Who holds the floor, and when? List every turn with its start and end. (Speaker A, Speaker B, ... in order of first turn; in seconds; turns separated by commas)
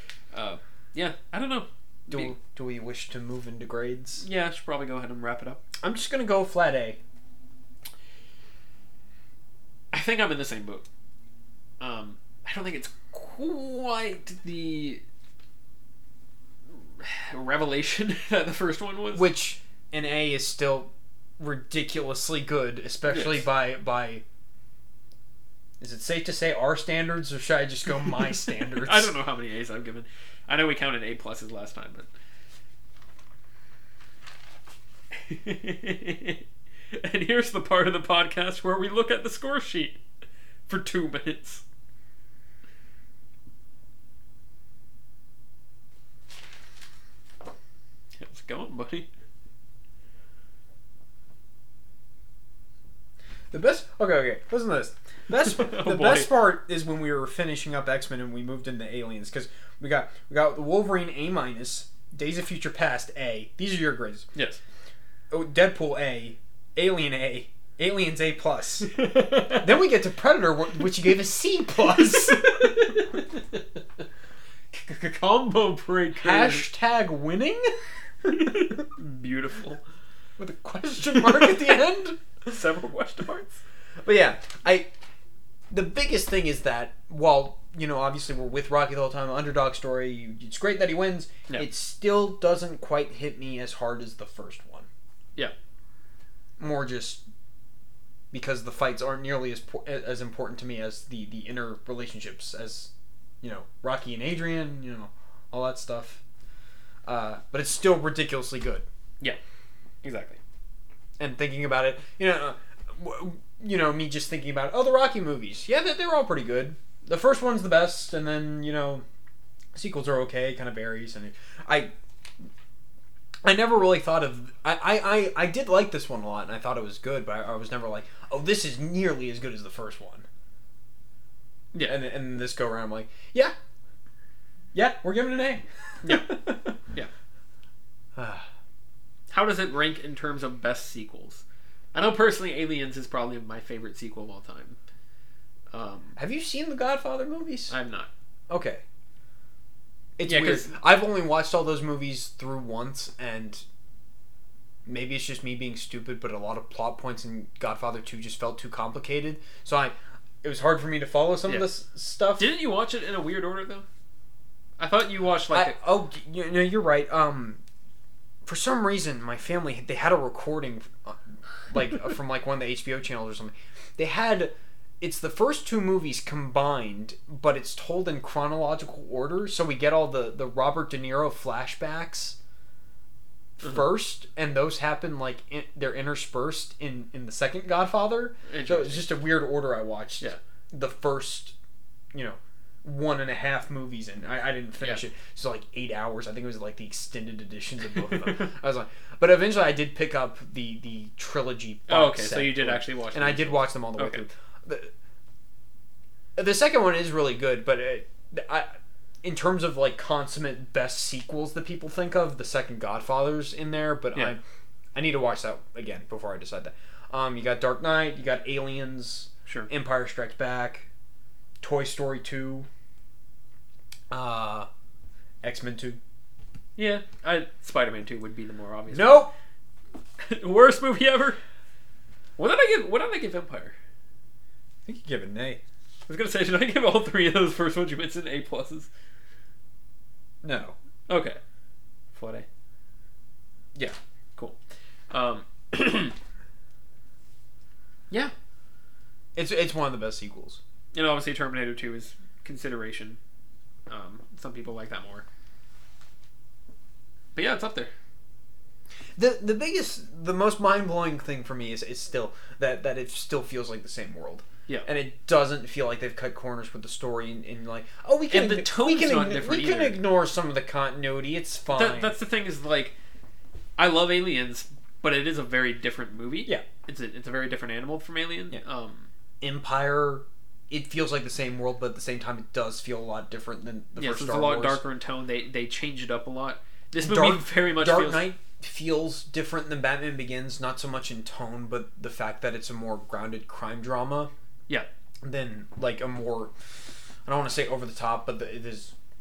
Speaker A: 0.3-2.3, Speaker B: 2.1-4.2, Speaker A: 4.2-5.6, Speaker B: 5.8-7.0, Speaker A: 9.9-10.8, Speaker A: 11.8-15.0, Speaker A: 17.0-19.3, Speaker B: 19.1-24.2, Speaker A: 23.1-23.4, Speaker B: 25.8-29.1, Speaker A: 28.3-32.1, Speaker A: 35.1-40.0, Speaker A: 40.7-41.6, Speaker A: 48.2-49.1, Speaker B: 53.5-64.3, Speaker A: 55.4-56.3, Speaker A: 64.3-64.6, Speaker B: 65.3-68.9, Speaker A: 68.8-69.8, Speaker B: 69.5-72.8, Speaker A: 71.9-73.6, Speaker A: 74.7-76.7, Speaker B: 76.2-78.8, Speaker A: 78.3-79.8, Speaker B: 80.4-82.2, Speaker A: 81.1-81.8, Speaker A: 82.4-83.6, Speaker B: 84.0-84.9, Speaker B: 85.7-94.9, Speaker B: 96.6-97.2, Speaker B: 98.3-102.9, Speaker B: 103.4-106.2, Speaker B: 107.0-108.9, Speaker A: 110.0-110.4, Speaker B: 111.2-119.0, Speaker B: 119.7-121.9, Speaker B: 123.4-130.3, Speaker B: 131.9-133.5, Speaker B: 134.7-136.8, Speaker A: 136.0-136.3, Speaker B: 138.2-138.5, Speaker A: 139.3-144.8, Speaker A: 145.7-146.2, Speaker B: 146.2-147.7, Speaker A: 147.7-148.1, Speaker B: 148.5-148.8, Speaker B: 150.2-153.6, Speaker A: 150.3-150.7, Speaker B: 154.9-162.5, Speaker A: 162.4-163.9, Speaker A: 164.8-165.8, Speaker B: 165.5-167.6, Speaker B: 168.4-182.4, Speaker B: 183.6-191.6, Speaker A: 188.5-189.1, Speaker B: 192.1-204.9, Speaker A: 198.1-198.5, Speaker A: 201.9-204.2, Speaker B: 206.4-208.7, Speaker B: 209.2-214.4, Speaker B: 214.9-220.9, Speaker B: 221.6-222.7, Speaker B: 224.1-224.7, Speaker B: 225.4-226.0, Speaker A: 226.8-229.3, Speaker B: 228.9-229.3, Speaker A: 230.2-231.4, Speaker A: 232.4-233.8, Speaker B: 234.9-235.6, Speaker A: 236.1-238.9, Speaker B: 240.4-240.7, Speaker A: 241.1-241.4, Speaker A: 242.1-242.4, Speaker A: 245.1-246.2, Speaker B: 249.3-250.6, Speaker A: 250.9-253.2, Speaker A: 253.9-255.2, Speaker A: 257.3-257.9, Speaker B: 259.2-272.1, Speaker A: 268.3-270.0, Speaker A: 271.7-272.9, Speaker A: 273.8-279.1, Speaker B: 279.4-284.8, Speaker A: 284.0-288.2, Speaker B: 287.0-294.3, Speaker B: 295.2-296.7, Speaker B: 297.2-298.9